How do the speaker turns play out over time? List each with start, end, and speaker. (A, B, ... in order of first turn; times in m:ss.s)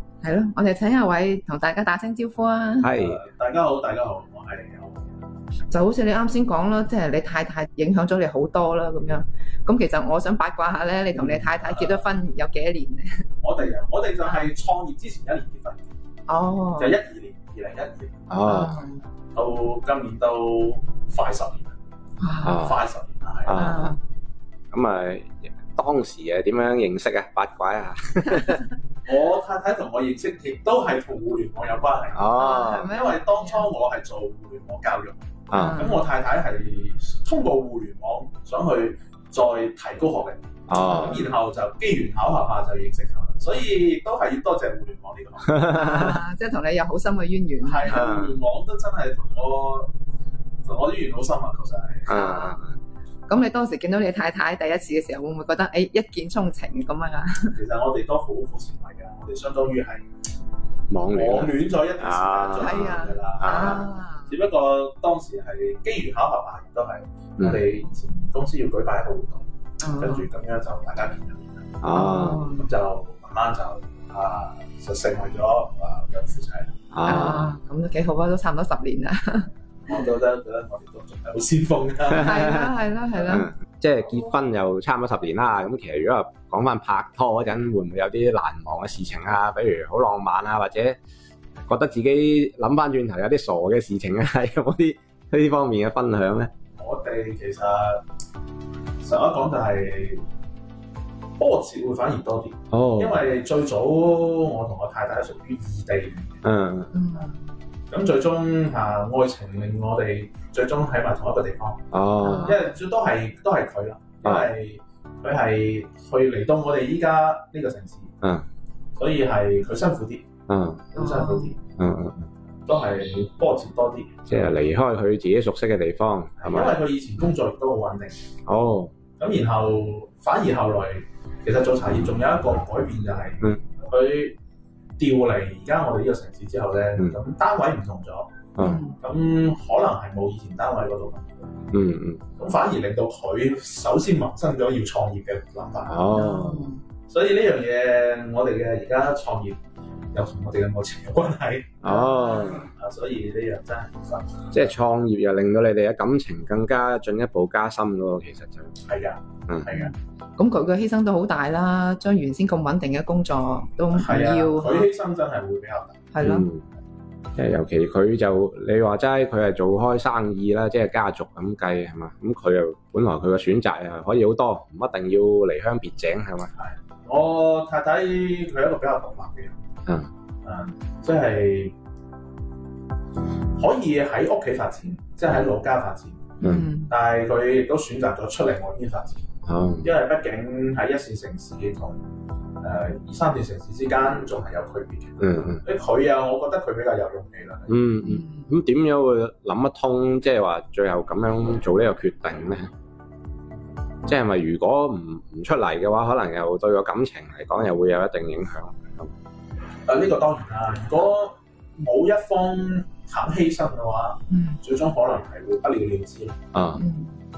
0:00.2-0:02.9 A
0:02.8-0:03.2 B
0:03.0-0:05.1 C
0:05.7-0:13.2 A
0:11.1-0:12.0 C
0:13.4-0:15.8 C
0:16.3-0:17.0 A
0:16.8-0:18.4 C
0:18.3-0:18.9 B
0:18.4-0:19.0 A
0:19.3-0:21.7 C
0:22.2-0:22.7 A
0:22.4-0:22.8 B
0:22.6-0:23.6 C
0:23.5-0:24.0 B
0:23.5-0:24.0 A
0:24.7-0:28.6 B
0:29.0-0:45.8 C
0:32.1-0:32.9 B
0:32.3-0:33.7 A
0:35.5-0:35.9 B
0:35.5-0:36.1 A
0:40.7-0:41.2 B
0:40.9-0:41.3 A
0:45.6-0:46.2 B
0:45.7-0:48.1 A
0:47.6-0:49.9 C
0:47.9-0:48.3 B
0:50.6-0:52.2 C
0:52.1-0:52.7 B
0:52.1-0:52.6 A
0:53.3-0:57.6 A
0:57.5-1:00.0 C
1:00.9-1:03.8 B
1:01.1-1:09.4 C
1:02.6-1:04.3 A
1:09.8-1:10.3 A
1:10.0-1:11.8 C
1:11.8-1:12.4 B
1:11.9-1:12.7 A
1:12.5-1:16.8 C
1:16.9-1:17.5 B
1:17.0-1:20.0 A
1:19.9-1:22.5 C
1:22.2-1:22.6 B
1:22.2-1:23.5 A
1:23.2-1:31.0 B
1:31.7-1:36.5 B
1:36.8-1:38.0 C
1:39.0-1:40.2 C
1:41.4-1:46.4 C
1:42.7-1:43.2 B
1:46.4-1:46.9 B
1:46.9-1:47.4 A
1:47.9-1:51.9 C
1:51.9-1:52.6 B
1:52.2-1:52.7 A
1:52.4-1:58.1 C
1:54.2-1:54.5 B
1:58.2-1:58.5 B
1:59.0-2:00.3 C
2:00.5-2:01.0 B
2:01.0-2:01.6 C
2:01.0-2:01.5 A
2:01.8-2:02.3 B
2:02.7-2:04.2 C
2:04.3-2:06.8 B
2:06.4-2:08.3 C
2:08.5-2:08.9 B
2:09.2-2:14.4 C
2:15.0-2:18.4 C
2:18.6-2:18.8 B
2:18.6-2:19.0 A
2:18.9-2:21.3 C
2:21.7-2:22.2 B
2:22.4-2:26.0 C
2:25.9-2:26.7 B
2:26.1-2:26.8 A
2:27.1-2:29.6 C
2:30.1-2:31.9 C
2:31.8-2:32.7 B
2:31.9-2:32.7 A
2:32.6-2:34.8 C
2:34.5-2:38.7 B
2:38.8-2:39.9 C
2:39.7-2:44.9 A
2:43.9-2:46.1 C
2:46.1-2:46.5 A
2:46.2-2:46.6 B
2:47.4-2:56.5 B
2:56.6-2:59.6 C
3:00.4-3:01.7 C
3:03.6-3:09.3 C
3:06.4-3:06.9 A
3:06.4-3:06.7 B
3:09.5-3:09.9 B
3:09.8-3:12.0 C
3:12.6-3:17.8 C
3:15.2-3:15.6 B
3:17.7-3:22.7 B
3:18.0-3:18.5 A
3:24.1-3:29.1 B
3:29.8-3:36.4 C
3:34.3-3:34.6 A
3:36.5-3:36.8 B
3:36.8-3:37.2 A